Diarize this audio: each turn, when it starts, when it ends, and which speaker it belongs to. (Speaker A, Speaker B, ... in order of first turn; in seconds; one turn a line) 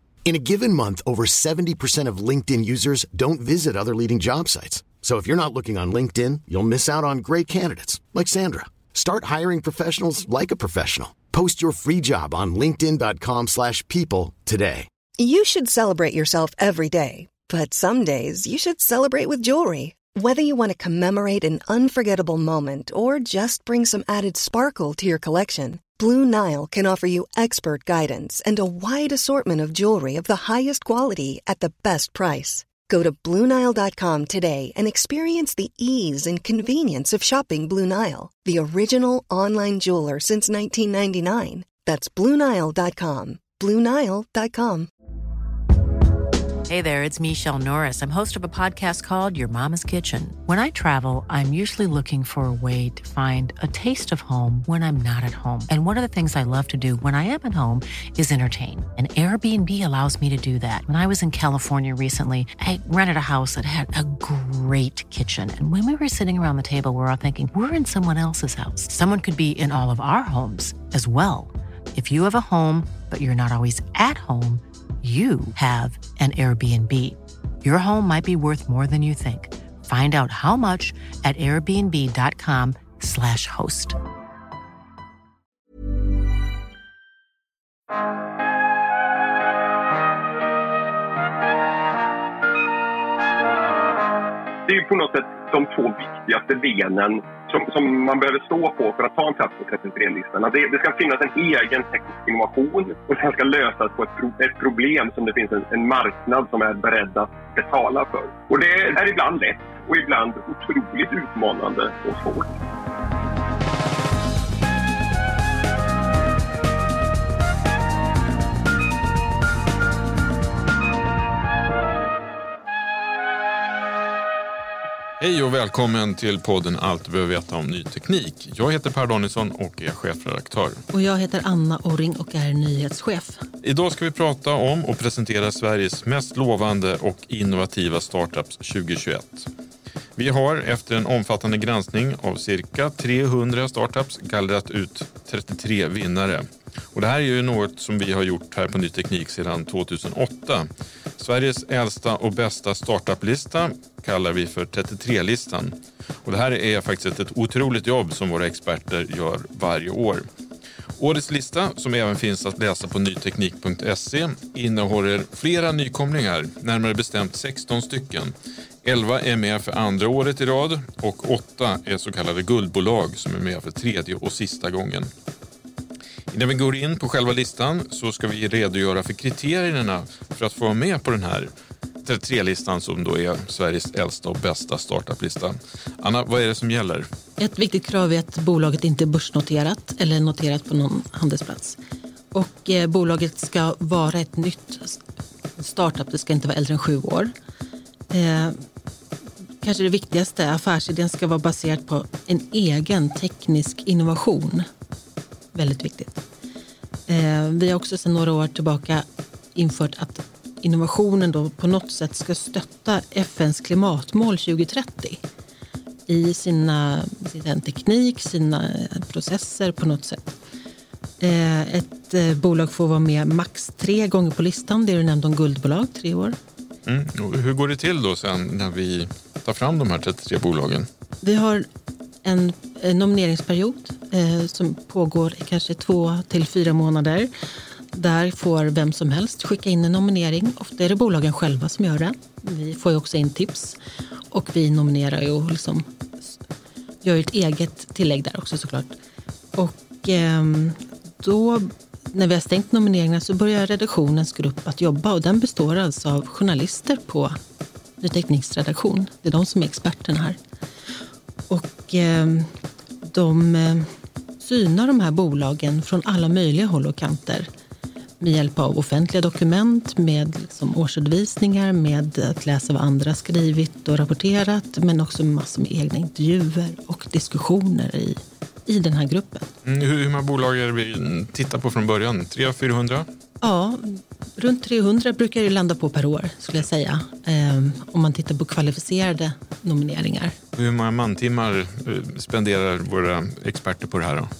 Speaker A: 0.2-14.9
Speaker B: 15.2-44.9
Speaker C: 46.7-84.0
Speaker D: 94.7-112.5
Speaker E: 125.2-130.8
Speaker F: 130.9-133.4
Speaker E: 133.6-139.5
Speaker E: 140.2-160.2
Speaker E: 161.0-175.1
Speaker E: 176.3-181.5
Speaker E: 182.0-187.1
Speaker F: 187.4-191.8
Speaker F: 192.3-195.0
Speaker F: 195.6-197.3
Speaker F: 198.1-198.6
Speaker F: 199.6-204.7
Speaker F: 205.5-206.2
Speaker F: 207.1-215.2
Speaker F: 216.1-220.3
Speaker F: 221.2-226.4
Speaker E: 226.8-230.9
Speaker F: 231.2-231.7
Speaker F: 232.2-237.3
Speaker F: 237.9-243.8
Speaker F: 244.3-245.9
Speaker F: 247.0-248.9
Speaker F: 249.6-257.4
Speaker F: 258.0-260.4
Speaker F: 261.5-262.5
Speaker F: 263.0-263.9
Speaker F: 264.4-267.5
Speaker F: 268.2-279.5
Speaker E: 279.6-283.1
Speaker F: 283.4-290.4
Speaker E: 290.5-294.3